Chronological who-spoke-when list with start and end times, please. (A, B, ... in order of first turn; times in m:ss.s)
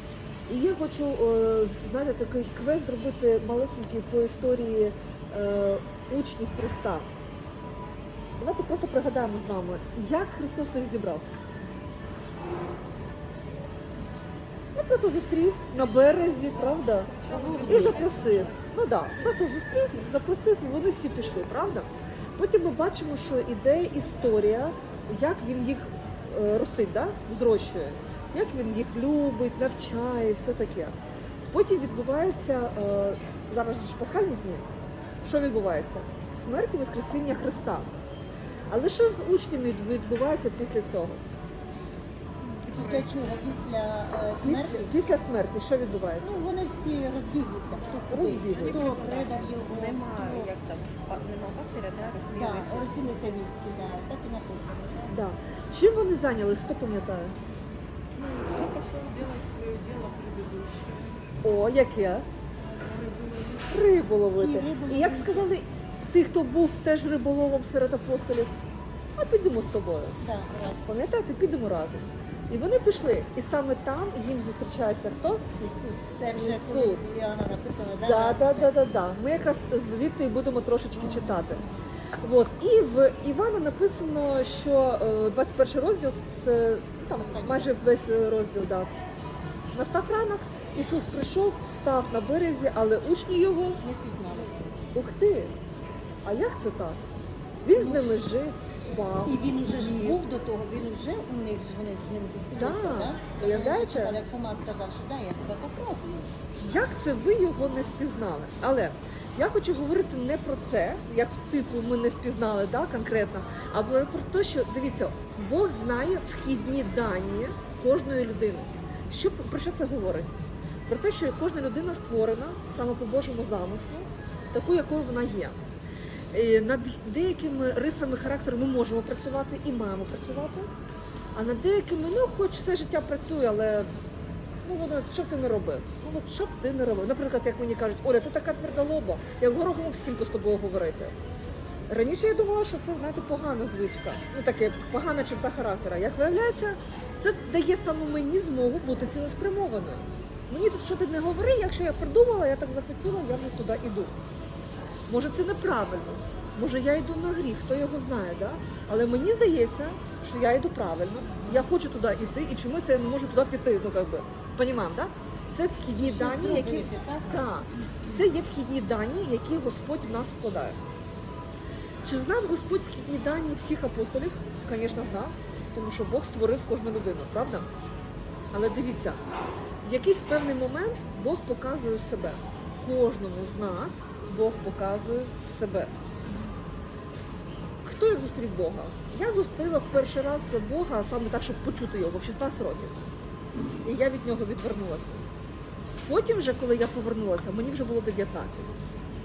0:00.5-0:07.1 A
0:08.4-0:11.2 A
0:14.7-0:31.0 A
0:17.1-0:18.5 B
0:17.3-0:18.5 C
0:31.5-0:34.6 A
0:35.2-0:37.9 A
0:38.7-0:41.2 A
0:42.6-0:44.9 C
0:42.7-0:43.1 B
0:44.4-0:46.3 A
0:46.2-0:50.5 C
0:48.0-0:50.6 B
0:48.1-0:49.0 A
0:49.8-0:52.8 A
0:51.5-0:52.8 B
0:52.3-0:55.2 C
0:55.1-0:57.4 A
0:58.2-1:01.2 B
1:01.4-1:02.2 A
1:02.8-1:03.7 B
1:03.6-1:08.5 A
1:04.3-1:05.5 C
1:09.2-1:15.4 A
1:10.2-1:10.8 C
1:15.6-1:18.7 C
1:16.3-1:17.0 A
1:18.0-1:21.6 A
1:20.9-1:21.8 C
1:22.2-1:28.9 A
1:27.2-1:27.8 C
1:29.7-1:33.8 A
1:33.8-1:34.8 C
1:35.0-1:35.5 A
1:36.2-1:37.0 A
1:37.6-1:40.2 A
1:37.8-1:38.2 C
1:39.2-1:46.3 C
1:42.6-1:44.2 A
1:46.6-2:05.6 A
2:06.3-2:10.7 A
2:11.3-2:13.9 A
2:14.6-2:21.1 A
2:21.9-2:34.1 A
2:35.1-2:50.8 A
2:41.3-2:41.7 C
2:45.9-2:47.5 C
2:52.0-2:57.7 A
2:58.5-2:59.2 A
2:59.8-3:05.9 A
3:07.8-3:13.0 A
3:13.8-3:15.2 A
3:16.0-3:18.7 A